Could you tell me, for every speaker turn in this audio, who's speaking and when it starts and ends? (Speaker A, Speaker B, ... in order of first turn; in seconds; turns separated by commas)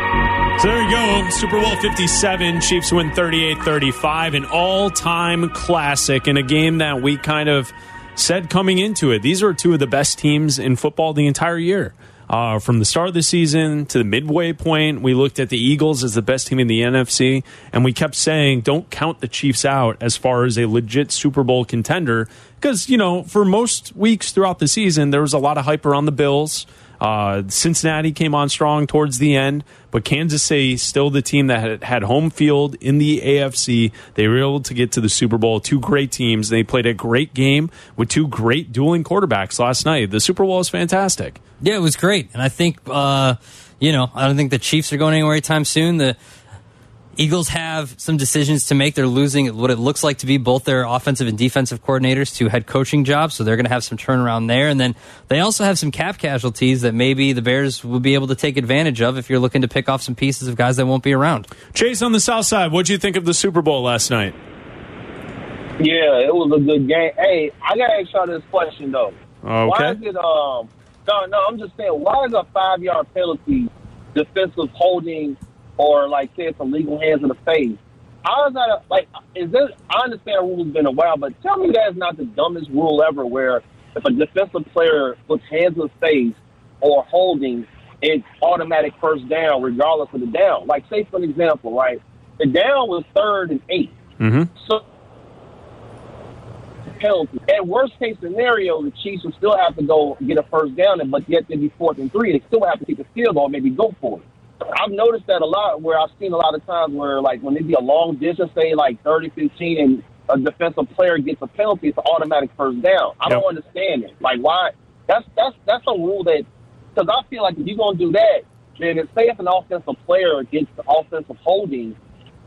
Speaker A: 0.6-41.4, Speaker B: 41.6-46.2, Speaker B: 47.2-61.5, Speaker A: 61.7-64.4, Speaker C: 65.8-94.0, Speaker A: 69.4-70.0, Speaker A: 94.2-94.5, Speaker C: 94.6-94.8, Speaker C: 97.0-122.0